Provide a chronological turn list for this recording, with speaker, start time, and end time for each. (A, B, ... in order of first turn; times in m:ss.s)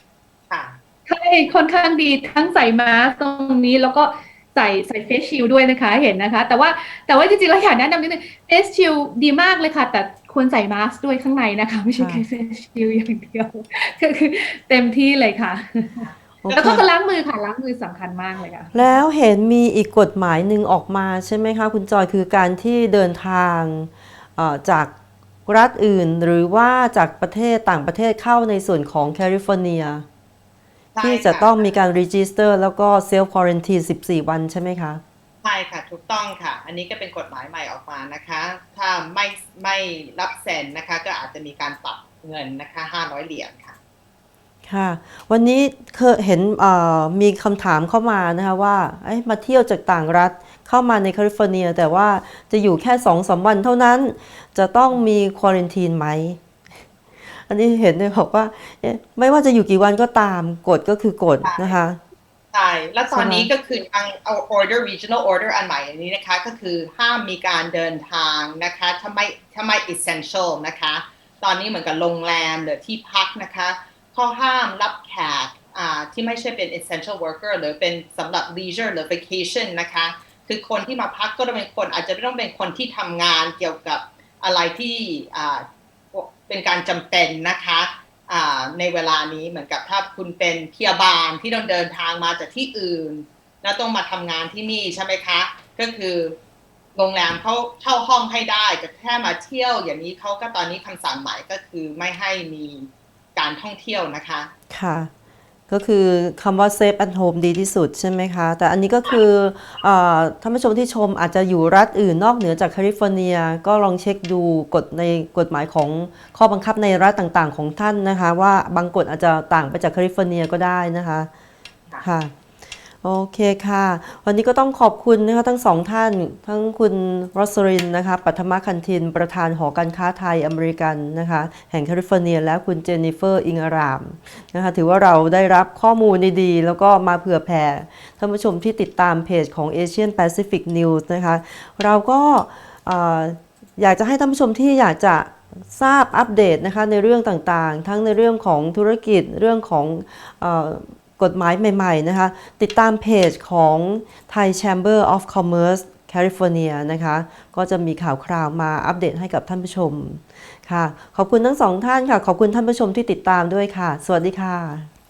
0:00.5-0:00.8 A
0:01.1-0:18.7 B
0:12.0-0:12.2 C
0:16.4-0:16.8 C
0:18.7-0:24.9 C
0:25.4-0:30.0 C
0:30.9-0:31.8 A
0:31.0-0:35.0 C
0:35.4-0:43.8 A
0:44.6-0:56.4 C
0:57.3-1:02.0 C
1:01.4-1:01.7 A
1:02.5-1:36.4 A
1:03.1-1:03.5 C
1:36.9-1:44.5 A
1:44.7-1:45.1 C
1:45.7-2:01.3 C
2:02.0-2:02.3 C
2:03.0-2:44.9 C